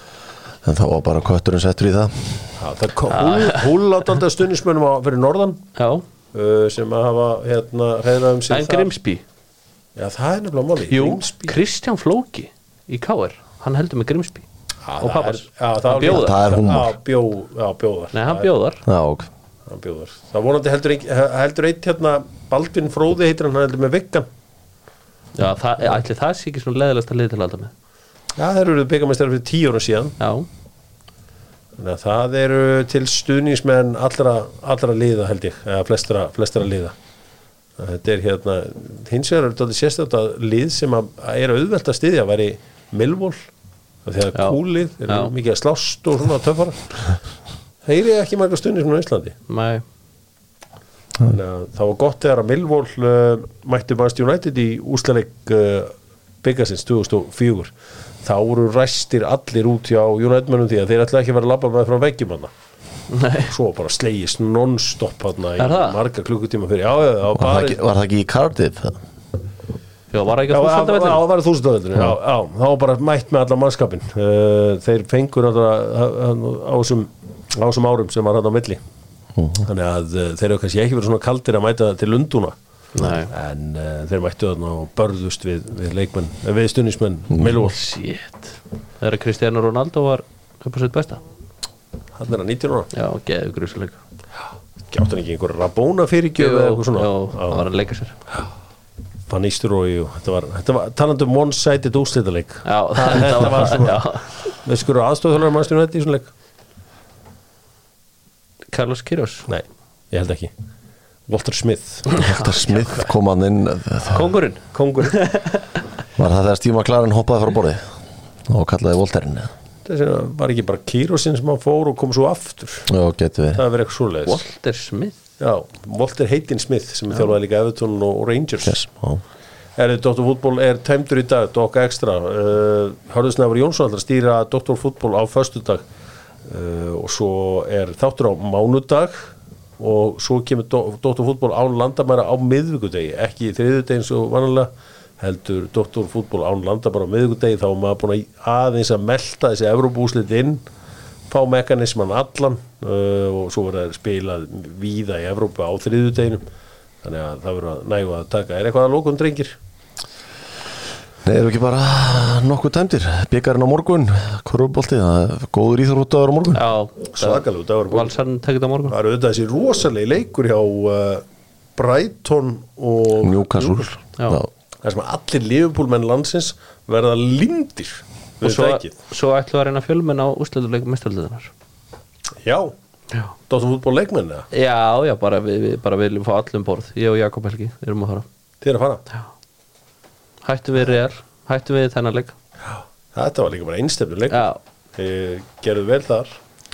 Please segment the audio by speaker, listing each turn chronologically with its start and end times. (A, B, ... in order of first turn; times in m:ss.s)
0:00.6-0:02.4 A
0:02.6-0:05.6 B
0:03.2-0:03.6 C
0:05.8-0:06.0 C
0:06.3-0:08.9 B
0:08.5-0:09.2 C
0:10.0-0:11.6 B
0:10.9-0:14.4 C
0:14.8-0:18.5 B
0:15.0-0:16.5 C
0:16.0-0:16.9 A
0:18.1-0:18.8 C
0:18.8-0:19.3 A
0:19.7-0:24.3 B
0:25.3-0:27.7 C
0:28.4-0:30.2 B
0:30.2-0:30.5 C
0:31.8-0:36.9 B
0:37.8-0:43.4 B
0:44.0-0:46.8 B
0:47.8-0:49.4 B
0:49.5-0:49.8 C
0:51.2-0:57.7 B
0:58.2-1:02.5 B
1:03.1-1:03.5 C
1:03.4-1:07.8 B
1:05.6-1:06.0 C
1:07.4-1:09.0 A
1:10.1-1:11.2 C
1:10.5-1:18.8 B
1:19.4-1:19.6 A
1:19.6-1:22.5 B
1:22.9-1:23.3 C
1:23.2-1:27.8 B
1:27.6-1:31.2 C
1:32.2-1:32.9 B
1:32.9-1:34.0 C
1:34.9-1:37.6 B
1:36.4-1:38.2 C
1:39.3-1:44.1 B
1:42.6-1:44.3 C
1:44.6-1:46.3 B
1:48.7-1:49.5 C
1:49.5-1:50.5 B
1:51.3-1:52.1 B
1:52.1-1:53.1 C
1:52.1-1:54.3 A
1:54.1-1:55.6 C
1:54.7-1:55.2 B
1:56.2-1:57.9 A
1:58.5-1:59.5 A
1:59.8-2:02.9 B
2:02.9-2:03.6 A
2:03.5-2:04.4 B
2:04.2-2:05.2 C
2:05.4-2:08.8 B
2:08.6-2:09.2 A
2:09.8-2:15.8 B
2:16.4-2:30.6 B
2:31.3-2:36.4 B
2:37.0-2:39.6 B
2:41.2-2:46.6 A
2:46.5-2:48.9 C
2:47.1-2:48.2 B
2:48.9-2:51.2 B
2:51.8-2:53.9 B
2:53.2-2:54.5 A
2:54.8-2:58.9 B
2:58.4-3:01.5 C
3:02.4-3:02.7 B
3:03.5-3:04.5 B
3:04.5-3:08.2 C
3:08.6-3:09.0 B
3:10.4-3:12.3 C
3:12.6-3:16.3 B
3:14.3-3:14.6 C